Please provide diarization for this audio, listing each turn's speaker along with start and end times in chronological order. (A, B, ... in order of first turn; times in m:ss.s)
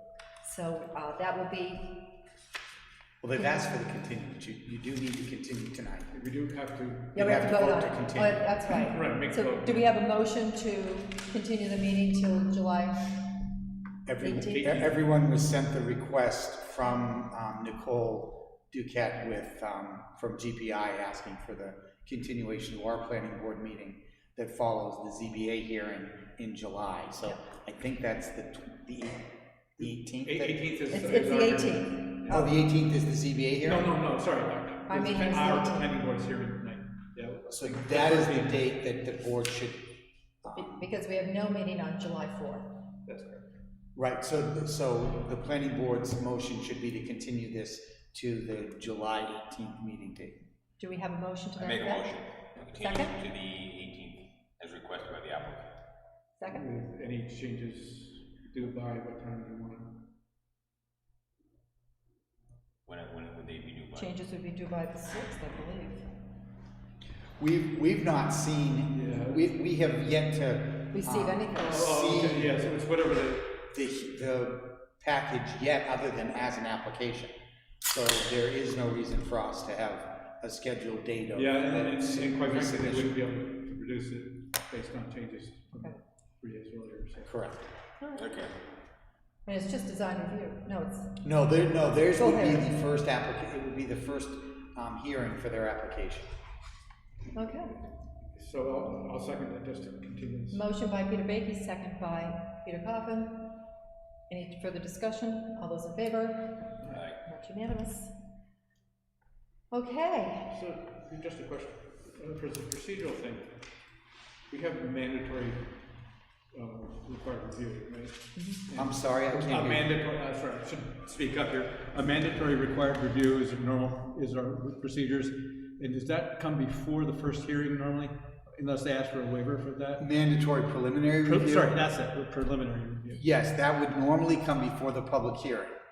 0:00.4-0:02.2 A
0:03.2-0:06.1 B
0:06.1-0:07.2 C
0:07.2-0:08.4 B
0:07.2-0:13.2 A
0:08.6-0:09.9 C
0:14.1-0:30.7 B
0:14.2-0:14.9 A
0:30.2-0:32.5 C
0:30.9-0:32.6 A
0:32.2-0:33.9 B
0:33.6-0:38.6 C
0:34.9-0:35.9 A
0:37.5-0:40.9 B
0:40.5-0:42.8 A
0:43.1-0:43.5 C
0:44.0-0:50.4 B
0:50.8-0:52.2 A
0:51.6-0:55.8 D
0:52.7-0:53.2 A
0:56.4-0:56.7 A
0:56.5-1:00.1 C
1:02.9-1:04.2 D
1:03.9-1:06.1 A
1:07.4-1:12.6 B
1:08.9-1:09.5 C
1:10.9-1:11.9 A
1:11.7-1:13.6 C
1:13.7-1:17.3 B
1:17.8-1:23.2 B
1:21.4-1:27.3 C
1:27.2-1:27.7 B
1:28.0-1:28.4 A
1:28.2-1:28.5 D
1:29.5-1:31.2 A
1:31.2-1:36.3 B
1:32.1-1:32.8 A
1:37.4-1:37.8 A
1:38.3-1:40.6 C
1:40.5-1:43.7 A
1:44.3-1:48.2 A
1:49.7-1:50.5 A
1:50.5-1:53.6 C
1:54.5-1:55.8 C
1:56.5-2:10.0 C
1:58.4-1:58.6 A
1:58.7-2:00.0 B
2:10.0-2:11.8 B
2:11.2-2:13.2 C
2:13.1-2:15.8 B